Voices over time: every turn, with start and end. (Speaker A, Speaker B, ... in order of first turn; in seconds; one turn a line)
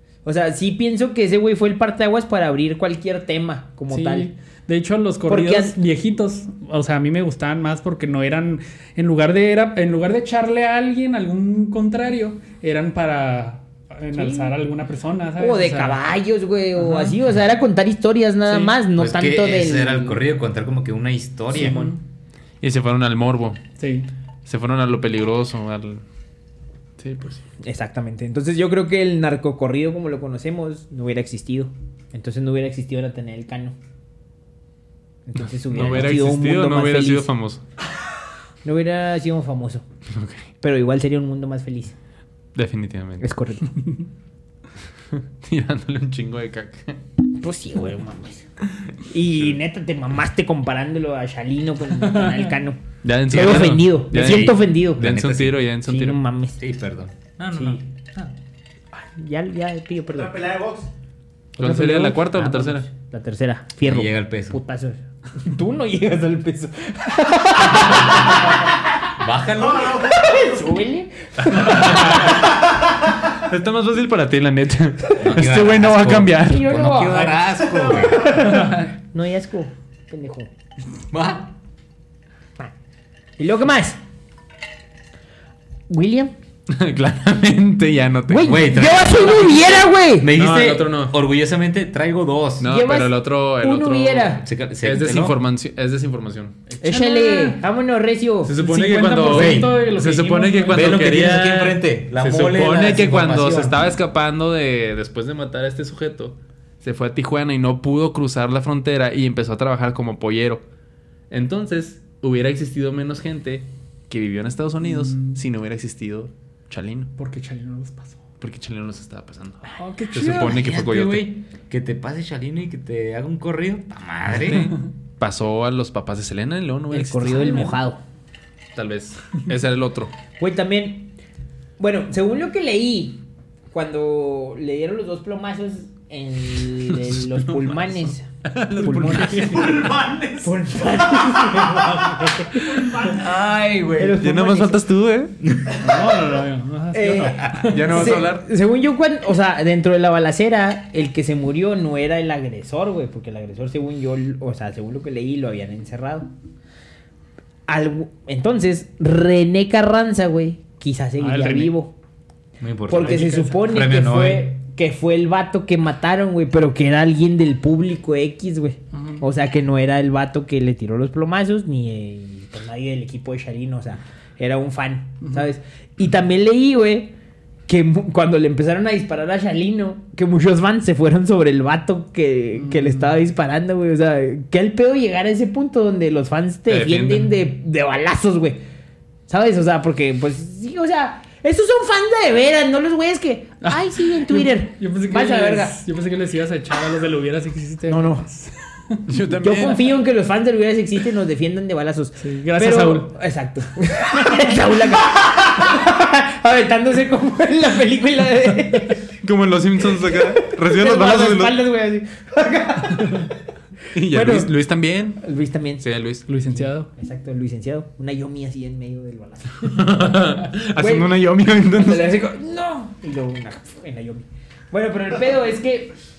Speaker A: 0.2-4.3
Speaker B: 3.9-16.0
Speaker A: 5.3-5.8
Speaker A: 14.1-14.6
Speaker A: 15.4-20.2
Speaker B: 16.8-17.2
Speaker B: 18.5-18.7
Speaker C: 19.0-21.9
Speaker A: 21.5-21.9
Speaker B: 21.5-22.0
Speaker D: 22.6-23.6
Speaker B: 23.8-24.1
Speaker D: 24.4-26.0
Speaker D: 27.0-27.4
Speaker A: 27.6-33.7
Speaker A: 35.2-37.3
Speaker D: 35.5-37.6
Speaker A: 38.6-39.8
Speaker D: 40.1-40.4
Speaker A: 40.6-41.9
Speaker D: 42.5-43.3
Speaker A: 43.2-43.7
Speaker D: 45.1-47.0
Speaker A: 47.4-48.5
Speaker A: 49.0-52.8
Speaker B: 52.0-52.5
Speaker D: 53.0-56.2
Speaker A: 53.3-55.0
Speaker C: 55.0-55.6
Speaker A: 55.8-56.6
Speaker C: 56.6-58.3
Speaker A: 57.5-57.8
Speaker A: 58.9-60.5
Speaker E: 60.1-60.9
Speaker A: 61.6-68.7
Speaker D: 61.6-62.9
Speaker C: 63.9-64.6
Speaker C: 69.2-70.1
Speaker E: 69.5-70.6
Speaker A: 70.1-72.4
Speaker D: 71.4-72.4
Speaker D: 73.3-76.7
Speaker C: 75.2-78.4
Speaker A: 76.4-80.5
Speaker E: 77.7-78.1
Speaker B: 78.5-78.8
Speaker C: 81.1-81.5
Speaker A: 83.4-84.0
Speaker A: 85.9-86.3
Speaker D: 86.7-88.7
Speaker A: 88.3-90.3
Speaker C: 88.4-92.7
Speaker D: 89.4-89.6
Speaker D: 90.3-91.2
Speaker D: 92.6-96.8
Speaker A: 92.6-94.4
Speaker C: 94.4-95.4
Speaker A: 96.8-98.5
Speaker B: 96.8-97.6
Speaker D: 98.4-110.6
Speaker B: 98.5-101.0
Speaker C: 99.2-99.9
Speaker C: 100.7-103.9
Speaker D: 111.3-117.1
Speaker B: 114.8-115.4
Speaker B: 117.2-118.2
Speaker D: 118.4-121.2
Speaker B: 119.8-120.5
Speaker C: 120.1-124.7
Speaker D: 124.5-127.8
Speaker A: 126.9-128.0
Speaker D: 128.7-130.1
Speaker A: 130.4-131.1
Speaker A: 131.8-138.3
Speaker D: 136.9-139.9
Speaker B: 138.8-139.7
Speaker A: 138.8-139.6
Speaker E: 139.3-141.7
Speaker A: 140.4-142.8
Speaker E: 142.5-143.2
Speaker C: 143.1-144.2
Speaker A: 143.9-144.8
Speaker D: 144.0-145.4
Speaker C: 145.4-145.8
Speaker B: 145.8-148.3
Speaker A: 146.9-156.3
Speaker C: 147.3-147.8
Speaker D: 147.6-148.4
Speaker A: 157.7-161.9
Speaker B: 161.2-161.7
Speaker C: 162.6-164.5
Speaker A: 162.9-177.1
Speaker B: 162.9-163.6
Speaker B: 168.9-169.2
Speaker B: 175.2-175.5
Speaker A: 177.7-188.6
Speaker B: 182.6-183.1
Speaker D: 186.7-187.4
Speaker A: 189.3-195.7
Speaker B: 193.6-199.1
Speaker A: 197.9-198.3
Speaker D: 199.1-199.9
Speaker A: 199.4-209.0
Speaker B: 202.2-203.1
Speaker D: 209.2-211.6
Speaker A: 209.9-213.3
Speaker D: 213.9-215.2
Speaker A: 214.1-214.5
Speaker A: 215.2-215.8
Speaker D: 215.8-216.3
Speaker B: 216.3-216.9
Speaker A: 216.5-221.1
Speaker D: 219.6-222.2
Speaker A: 221.8-225.9